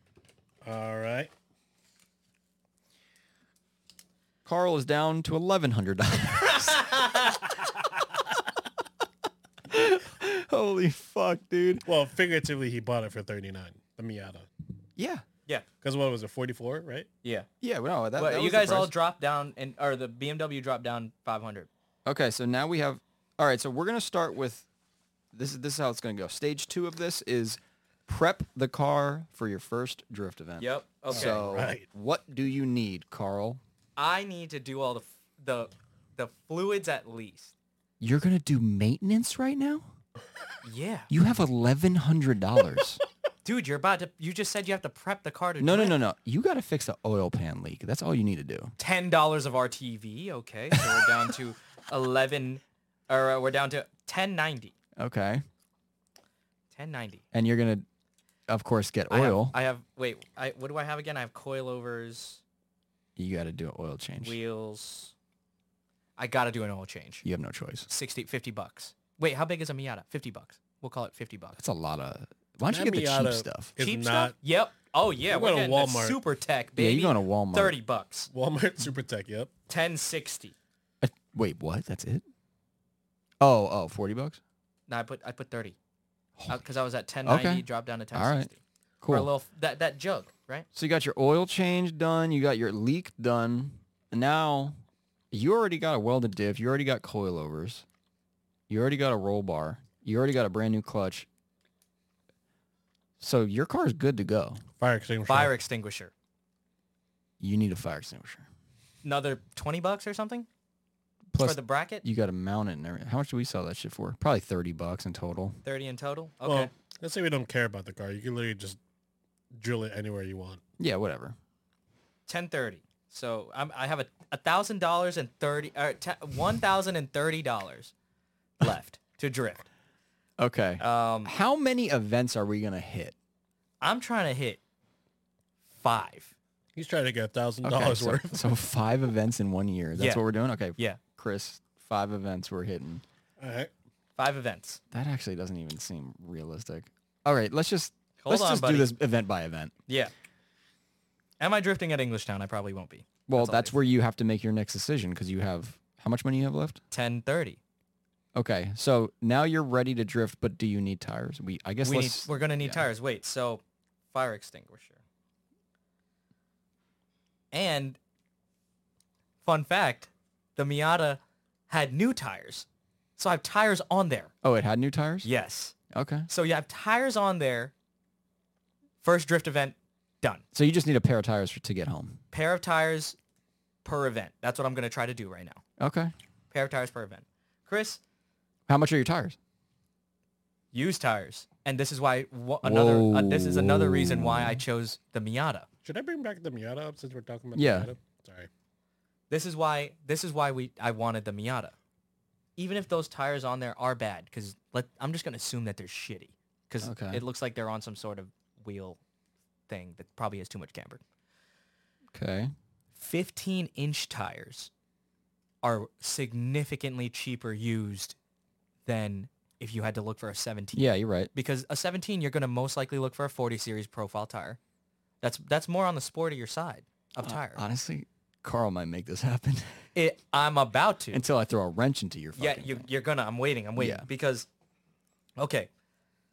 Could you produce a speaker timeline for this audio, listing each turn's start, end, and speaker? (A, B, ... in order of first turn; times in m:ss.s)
0:00.6-0:01.3 A
0:04.4-0:06.9 B
0:06.6-0:07.5 C
0:09.7-0:11.8 B
0:11.8-0:14.5 A
0:15.0-0:15.2 B
0:15.8-0:17.1 A
0:17.6-0:18.9 B
0:18.2-0:21.7 C
0:22.0-0:24.7 B
0:25.3-0:33.6 B
0:30.6-0:31.7 C
0:31.1-0:31.8 A
0:34.0-0:37.5 C
0:38.0-0:39.9 B
0:40.6-0:41.1 C
0:41.1-0:43.0 B
0:43.4-0:46.0 C
0:45.6-0:48.7 B
0:48.8-0:54.7 C
0:55.0-0:55.4 B
0:56.7-0:57.2 C
0:57.3-0:57.8 B
0:58.5-0:59.6 B
0:59.1-1:02.4 C
1:03.2-1:04.4 B
1:04.2-1:05.1 C
1:06.2-1:07.2 C
1:07.2-1:07.9 B
1:07.9-1:11.6 C
1:11.6-1:13.7 B
1:12.6-1:14.3 A
1:13.8-1:18.3 C
1:15.3-1:16.2 A
1:16.8-1:17.8 B
1:18.3-1:19.5 A
1:19.7-1:20.5 C
1:21.0-1:22.2 B
1:23.4-1:24.4 B
1:24.9-1:25.8 C
1:26.5-1:30.6 C
1:27.2-1:28.5 B
1:29.0-1:29.3 B
1:30.7-1:34.8 B
1:35.3-1:37.8 B
1:38.7-1:41.3 B
1:43.2-1:44.6 B
1:44.8-1:45.5 A
1:45.3-1:46.1 C
1:47.4-1:48.4 B
1:49.0-1:50.5 C
1:51.3-1:55.6 B
1:51.4-1:52.0 C
1:55.6-1:56.7 C
1:56.4-1:58.8 A
1:59.5-2:00.6 A
2:00.8-2:01.4 B
2:02.3-2:07.9 C
2:08.6-2:09.7 C
2:10.4-2:13.1 B
2:10.8-2:11.3 C
2:13.8-2:14.6 C
2:15.8-2:16.3 C
2:16.8-2:18.5 A
2:17.6-2:23.0 B
2:19.9-2:20.2 C
2:23.4-2:23.7 A
2:24.2-2:24.8 C
2:24.9-2:29.7 B
2:28.2-2:28.9 C
2:29.9-2:30.1 C
2:31.4-2:33.8 C
2:33.3-2:36.8 B
2:36.9-2:37.6 C
2:38.3-2:42.9 B
2:41.8-2:45.0 C
2:47.5-2:48.0 C
2:49.4-2:52.6 C
2:53.2-2:54.3 C
2:54.4-2:55.3 B
2:55.2-2:55.7 C
2:55.9-2:56.3 B
2:56.3-2:57.7 C
2:59.0-3:00.4 C
3:00.5-3:02.2 B
3:02.3-3:03.2 C
3:03.8-3:05.6 C
3:05.8-3:06.1 B
3:06.5-3:08.0 C
3:08.7-3:09.4 B
3:10.7-3:15.7 C
3:12.6-3:14.6 B
3:15.8-3:18.5 A
3:17.5-3:17.9 B
3:19.3-3:21.7 C
3:22.6-3:29.0 C
3:26.8-3:27.2 B
3:29.7-3:31.0 C
3:32.1-3:32.5 B
3:33.0-3:34.7 C
3:35.6-3:38.2 C
3:38.8-3:44.6 C
3:40.7-3:41.3 B
3:45.2-3:47.6 C
3:47.2-3:49.8 B
3:49.9-3:51.2 C
3:51.1-3:52.8 B
3:52.4-3:54.5 C
3:53.8-3:54.1 B
3:55.4-3:55.7 C